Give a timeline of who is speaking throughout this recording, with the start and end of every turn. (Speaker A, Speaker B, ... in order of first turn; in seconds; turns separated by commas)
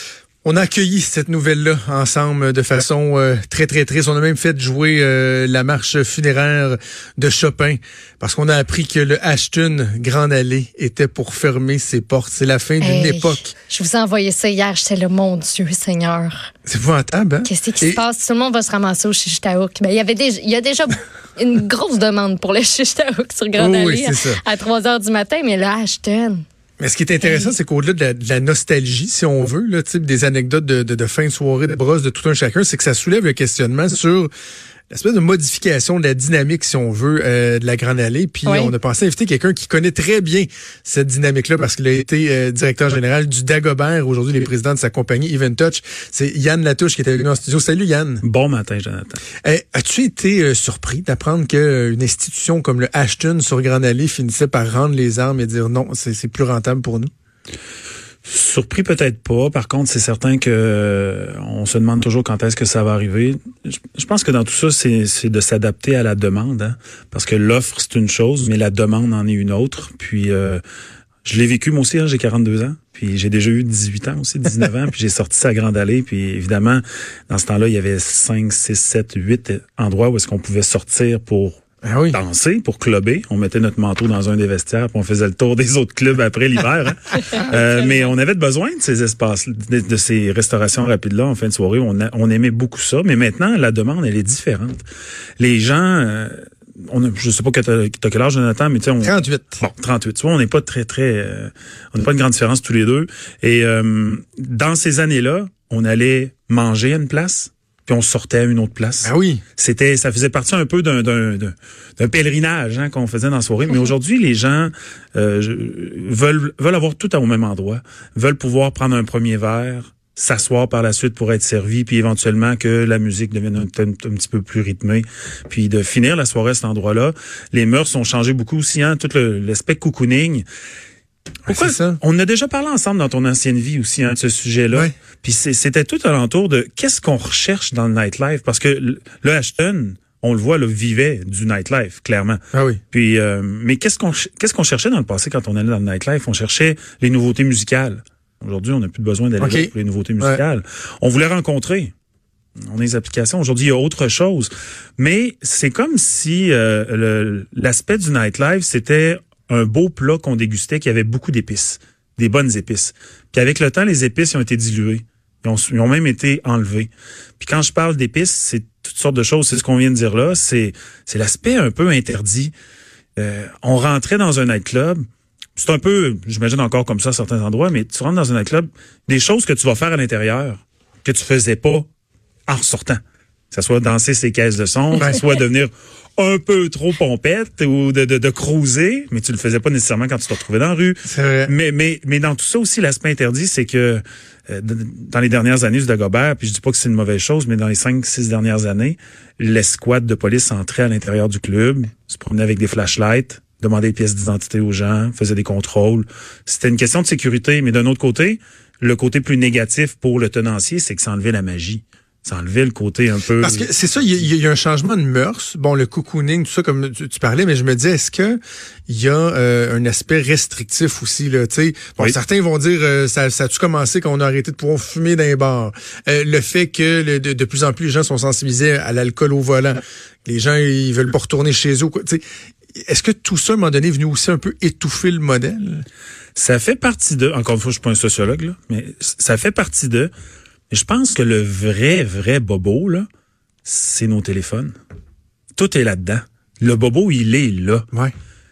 Speaker A: 0.4-13.5, Speaker B: 12.8-16.5, Speaker A: 16.7-18.0, Speaker B: 17.4-26.4, Speaker A: 23.6-24.4, Speaker A: 26.8-34.3, Speaker A: 34.9-48.2, Speaker B: 38.5-38.7, Speaker C: 48.2-49.2, Speaker A: 49.4-57.1, Speaker C: 58.2-70.6, Speaker C: 71.2-94.8, Speaker A: 81.8-82.2, Speaker B: 87.2-88.1, Speaker C: 95.4-130.4, Speaker A: 99.0-99.6, Speaker A: 109.0-109.4, Speaker C: 131.5-151.9, Speaker A: 131.5-132.0, Speaker A: 142.5-142.8, Speaker A: 149.4-150.4, Speaker C: 152.7-172.5, Speaker C: 173.2-175.0, Speaker C: 175.6-181.8, Speaker C: 182.5-183.0, Speaker C: 183.5-214.3, Speaker A: 191.1-191.5, Speaker A: 213.4-232.2, Speaker A: 232.8-235.8, Speaker C: 236.4-240.1, Speaker C: 240.7-243.1, Speaker C: 243.7-244.7, Speaker C: 245.6-247.9